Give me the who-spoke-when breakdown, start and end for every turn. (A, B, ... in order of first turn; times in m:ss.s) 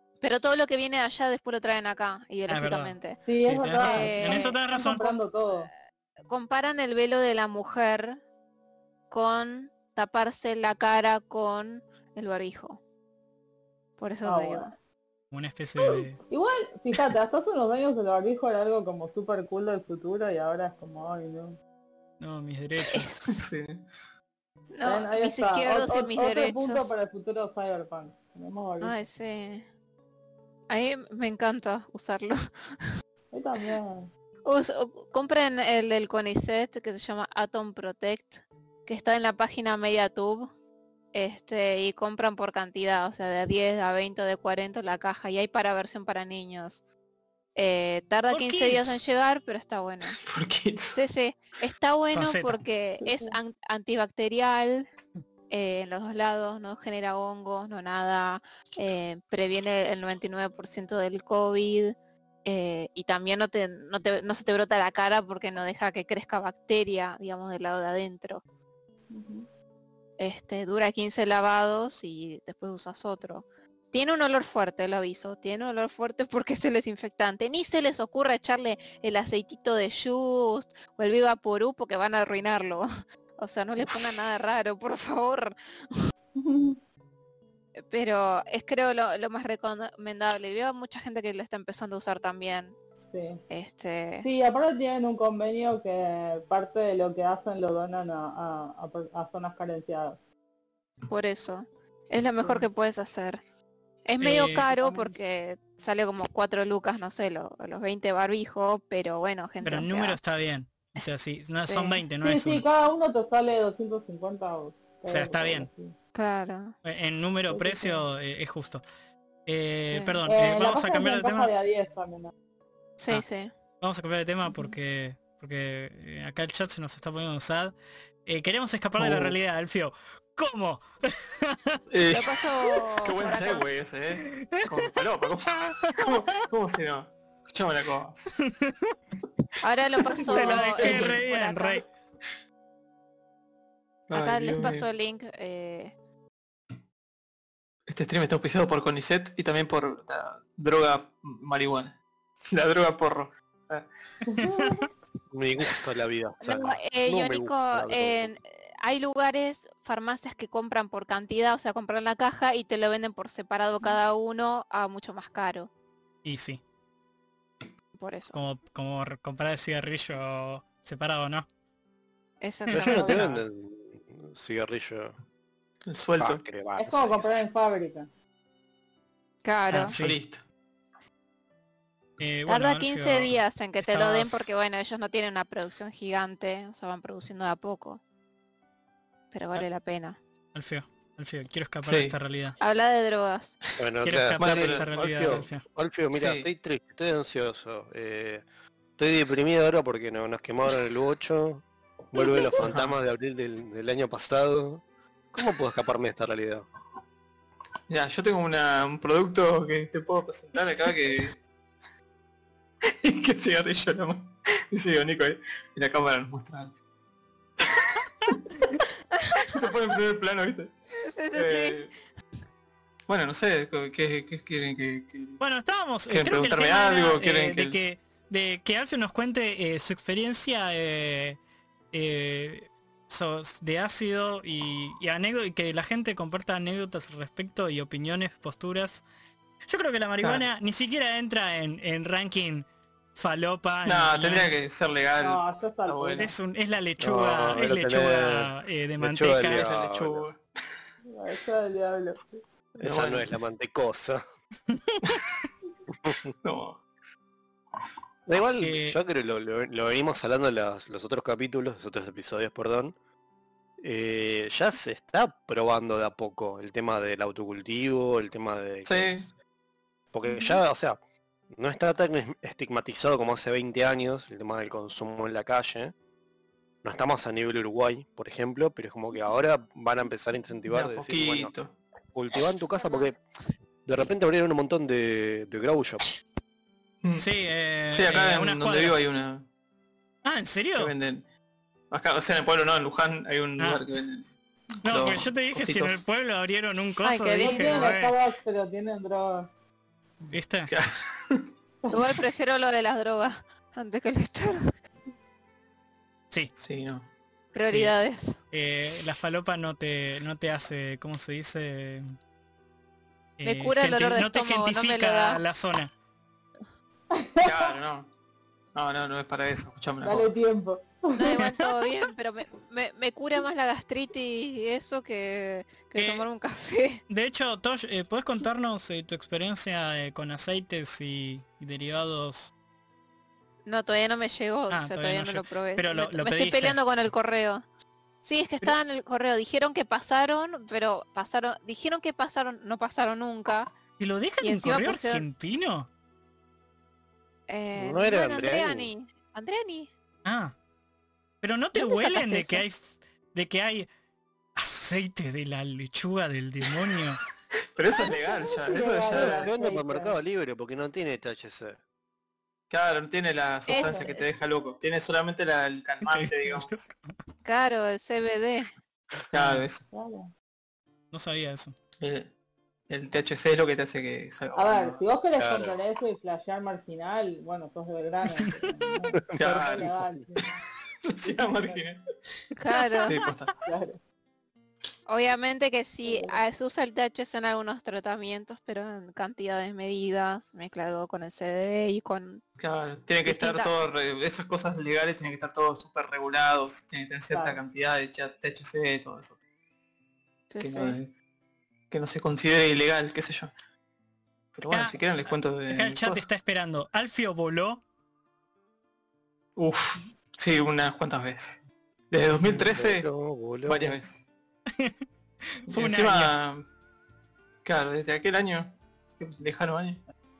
0:00.2-0:03.2 A
0:02.5-0:02.9 B
0:03.2-0:05.7 C
0:03.4-0:05.2 B
0:03.8-0:04.6 A
0:06.3-0:08.2 A
0:09.1-0:12.8 A
0:14.0-0:14.7 A
0:14.2-0:14.7 C
0:15.3-0:16.2 B
0:16.2-0:21.6 C
0:22.2-0:23.2 B
0:23.3-0:23.9 D
0:24.7-0:26.9 A
0:24.8-0:28.9 C
0:28.8-0:29.7 A
0:30.7-0:33.0 A
0:33.3-0:34.1 C
0:34.4-0:40.5 A
0:41.1-0:46.8 A
0:47.6-0:50.2 A
0:48.3-0:49.0 B
0:50.2-0:51.0 D
0:51.0-0:54.9 A
0:52.1-0:52.6 B
0:53.0-0:53.4 C
0:55.5-1:08.4 A
1:09.1-1:09.4 C
1:10.2-1:22.9 A
1:23.4-1:26.0 A
1:26.4-1:26.8 C
1:27.9-1:32.7 A
1:33.1-1:33.4 C
1:33.5-1:34.3 A
1:34.2-1:40.2 C
1:41.1-1:43.4 A
1:44.1-1:50.2 A
1:44.2-1:44.6 B
1:44.8-1:45.1 C
1:49.6-1:52.6 B
1:51.7-1:52.0 A
1:52.2-1:56.0 C
1:55.1-1:55.7 B
1:56.1-1:56.8 A
1:56.8-1:58.8 B
1:57.5-1:58.0 C
1:59.4-2:01.5 B
1:59.9-2:00.2 A
2:00.3-2:02.3 C
2:03.0-2:03.5 A
2:03.8-2:07.7 B
2:04.5-2:04.7 C
2:08.3-2:11.8 B
2:09.0-2:09.3 D
2:11.9-2:12.4 D
2:12.1-2:13.7 A
2:13.0-2:18.3 D
2:14.2-2:15.0 B
2:15.8-2:16.4 B
2:18.4-2:19.0 B
2:19.6-2:21.8 A
2:20.3-2:21.2 D
2:20.3-2:21.9 B
2:24.1-2:24.9 D
2:24.1-2:25.9 A
2:27.9-2:33.9 D
2:34.3-2:34.9 C
2:34.4-2:34.8 B
2:35.3-2:38.4 E
2:36.4-2:45.7 A
2:46.2-2:46.6 B
2:48.0-2:48.4 A
2:48.3-2:51.5 B
2:52.4-2:53.2 A
2:52.7-2:53.2 B
2:52.7-2:55.1 E
2:53.1-2:53.4 D
2:55.9-2:56.4 D
2:56.2-2:57.3 E
2:56.8-2:58.1 C
2:59.4-3:00.0 A
2:59.7-3:00.2 B
2:59.9-3:00.4 D
3:02.2-3:04.5 B
3:02.5-3:08.0 A
3:09.3-3:10.2 A
3:10.5-3:12.6 B
3:11.8-3:12.1 D
3:12.6-3:13.6 A
3:13.8-3:18.4 E
3:14.0-3:15.6 B
3:14.4-3:15.5 D
3:16.1-3:16.5 D
3:19.0-3:26.7 E
3:27.9-3:31.4 D
3:32.9-3:36.7 D
3:37.6-3:38.4 D
3:39.2-3:39.5 A
3:39.4-3:40.7 D
3:41.1-3:41.8 A
3:41.3-3:41.9 D
3:43.1-3:45.4 D
3:45.4-3:51.4 B
3:46.1-3:47.8 D
3:51.9-3:59.0 B
3:59.7-4:04.5 B
4:00.2-4:00.4 D
4:03.8-4:06.3 D
4:05.2-4:06.3 C
4:06.2-4:09.6 B
4:07.0-4:10.3 E
4:09.6-4:10.4 D
4:11.0-4:12.4 C
4:12.8-4:14.2 E
4:12.8-4:13.3 D
4:14.7-4:15.2 B
4:15.0-4:15.4 D
4:16.4-4:16.8 D
4:18.3-4:22.9 E
4:18.6-4:19.0 B
4:23.8-4:29.3 E
4:28.8-4:29.3 D
4:30.1-4:31.0 E
4:31.5-4:36.0 E
4:36.8-4:41.5 E
4:40.7-4:41.8 D
4:42.1-4:43.2 E
4:43.9-4:46.1 E
4:47.0-4:47.3 D
4:47.2-4:49.0 B
4:47.9-4:49.5 D
4:50.2-4:50.9 B
4:50.8-4:51.2 D
4:51.9-4:54.3 D
4:54.8-4:56.0 D
4:54.8-4:58.2 B
4:57.0-4:57.9 A
4:57.4-4:59.5 C
5:00.3-5:00.7 B
5:00.7-5:01.5 D
5:01.9-5:04.8 A
5:06.6-5:07.1 D
5:07.5-5:08.4 A
5:07.6-5:07.9 B
5:08.5-5:12.1 B
5:13.4-5:15.9 B
5:13.4-5:15.4 A
5:17.1-5:17.8 C
5:17.4-5:18.1 D
5:18.7-5:20.4 D
5:20.0-5:21.2 C
5:21.1-5:27.0 A
5:26.0-5:26.2 B
5:27.1-5:32.5 B
5:33.7-5:37.6 A
5:34.7-5:36.8 B
5:38.2-5:43.7 A
5:44.0-5:45.9 B
5:44.4-5:45.2 A
5:47.5-5:49.9 A
5:47.7-5:48.9 E
5:50.2-5:50.6 B
5:51.4-5:52.8 B
5:51.7-5:52.6 A
5:53.3-5:53.9 B
5:54.6-5:57.2 B
5:56.9-5:59.5 D
5:58.7-6:00.2 C
5:59.1-6:01.8 E
6:02.7-6:06.9 D
6:03.7-6:04.2 A
6:03.7-6:04.2 C
6:06.1-6:07.1 B
6:07.4-6:08.7 A
6:09.3-6:09.8 D
6:09.4-6:09.6 B
6:09.9-6:10.3 C
6:11.1-6:11.8 B
6:12.0-6:12.3 D
6:12.9-6:15.0 D
6:14.6-6:20.6 C
6:15.4-6:15.8 E
6:18.4-6:18.7 B
6:19.4-6:20.2 E
6:19.4-6:19.9 D
6:21.0-6:22.0 D
6:21.2-6:21.8 C
6:22.6-6:23.2 A
6:22.7-6:23.4 B
6:23.0-6:23.5 D
6:23.6-6:24.0 C
6:25.1-6:32.4 A
6:26.0-6:26.4 C
6:32.6-6:39.4 D
6:33.3-6:33.7 A
6:37.3-6:37.6 C
6:40.5-6:41.0 A
6:40.6-6:41.1 D
6:41.9-6:43.5 D
6:44.5-6:46.2 D
6:44.7-6:45.0 B
6:45.7-6:47.8 B
6:49.6-6:53.1 D
6:52.5-6:54.0 E
6:53.7-6:54.2 D
6:55.6-6:56.3 B
6:55.7-6:56.6 D
6:57.6-7:00.1 D